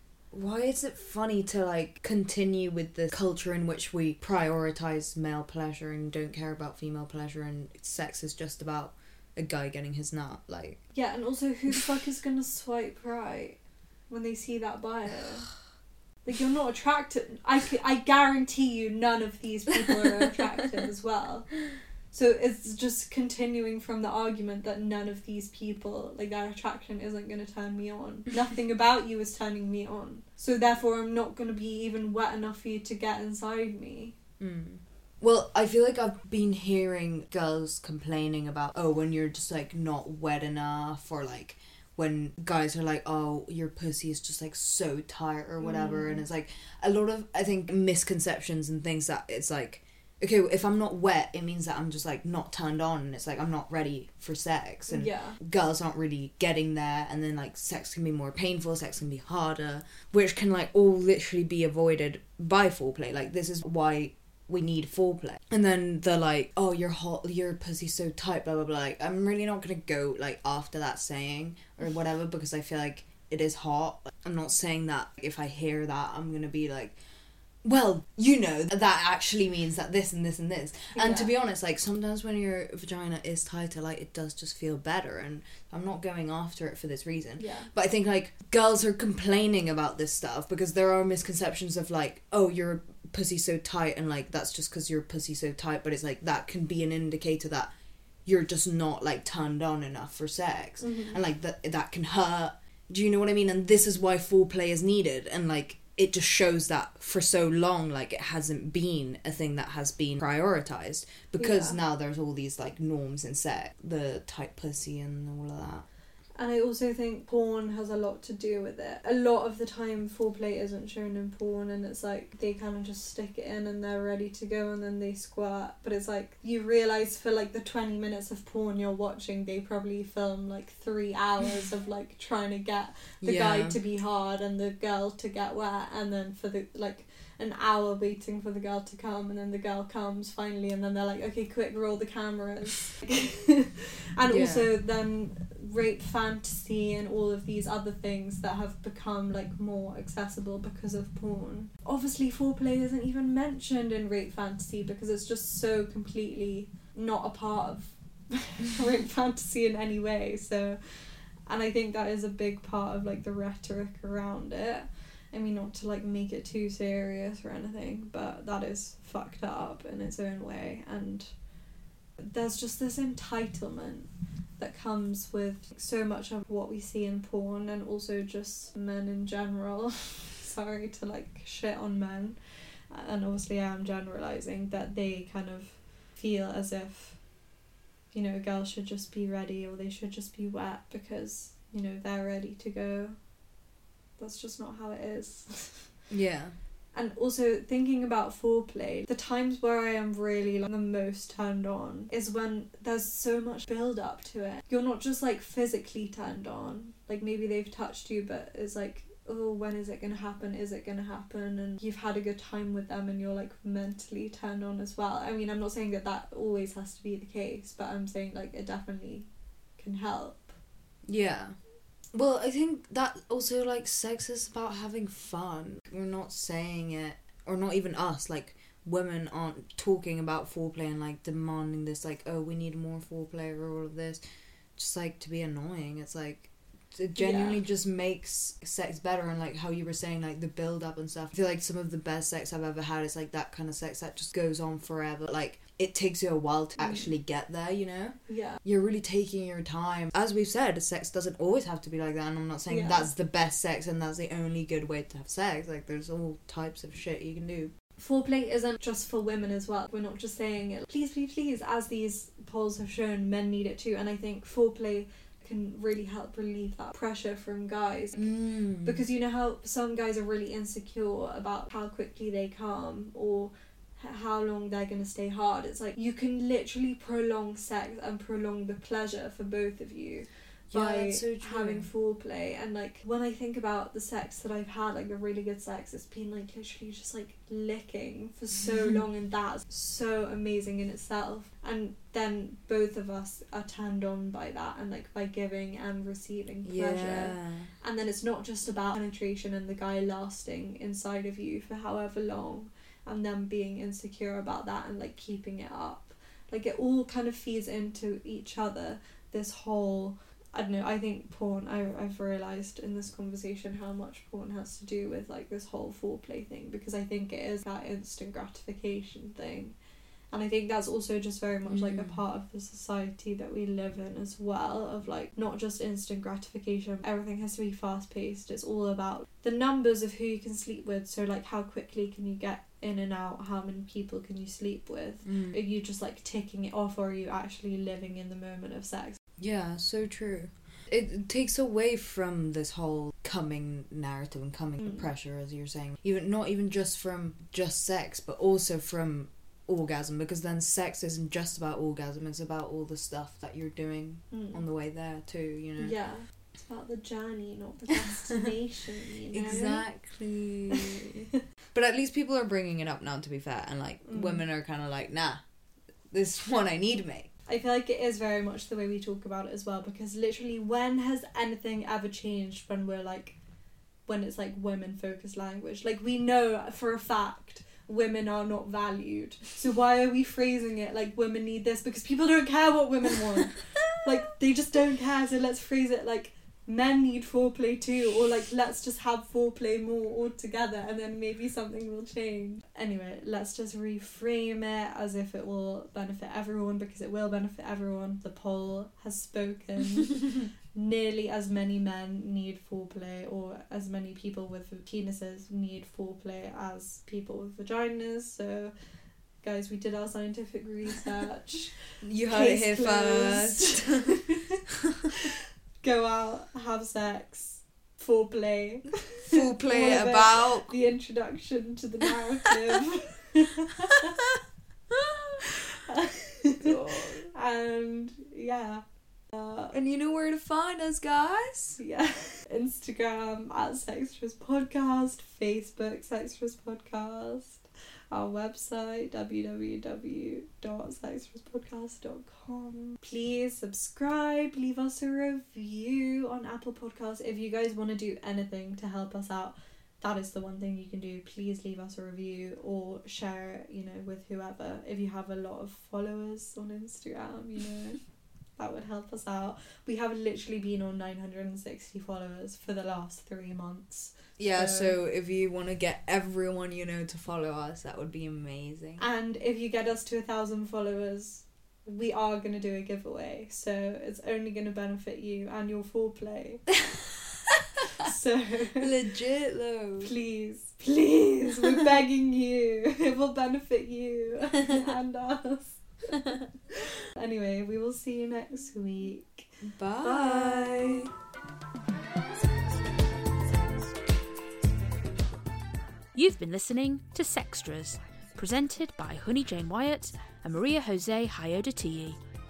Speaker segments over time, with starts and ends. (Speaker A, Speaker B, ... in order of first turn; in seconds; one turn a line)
Speaker A: 0.3-10.9
Speaker B: 10.9-15.5
Speaker B: 16.2-34.1
Speaker A: 34.4-77.0
Speaker B: 45.6-46.2
Speaker B: 54.9-55.4
Speaker A: 77.6-97.7
Speaker B: 80.9-81.3
Speaker B: 87.4-87.7
Speaker A: 98.2-115.9
Speaker B: 100.8-101.2
Speaker B: 111.4-111.8
Speaker B: 116.4-171.4
Speaker A: 133.2-133.8
Speaker A: 144.3-144.7
Speaker B: 172.2-187.4
Speaker B: 188.1-193.3
Speaker B: 194.2-196.0
Speaker A: 196.1-196.5
Speaker B: 196.9-220.5
Speaker A: 221.1-221.6
Speaker A: 222.1-234.2
Speaker A: 234.8-257.7
Speaker B: 237.2-237.6
Speaker B: 246.8-247.1
Speaker B: 248.3-248.6
Speaker B: 252.7-253.1
Speaker B: 258.0-319.8
Speaker A: 268.1-269.0
Speaker A: 280.7-281.9
Speaker A: 296.6-297.7
Speaker B: 320.3-339.2
Speaker A: 321.6-322.2
Speaker A: 335.2-335.6
Speaker A: 339.4-356.0
Speaker B: 354.3-354.6
Speaker B: 355.8-359.9
Speaker A: 359.3-365.4
Speaker B: 364.1-364.4
Speaker A: 366.1-367.3
Speaker B: 367.5-373.4
Speaker B: 374.1-408.7
Speaker B: 409.4-414.6
Speaker A: 412.0-414.2
Speaker B: 415.8-424.2
Speaker A: 419.2-420.7
Speaker B: 425.9-426.8
Speaker A: 426.6-427.3
Speaker B: 427.3-429.7
Speaker A: 429.7-431.8
Speaker B: 431.8-458.0
Speaker B: 458.6-465.0
Speaker A: 464.4-469.0
Speaker B: 469.0-476.8
Speaker B: 478.0-478.9
Speaker A: 478.8-480.1
Speaker B: 480.0-485.9
Speaker B: 487.1-491.1
Speaker A: 489.6-491.1
Speaker C: 496.1-502.2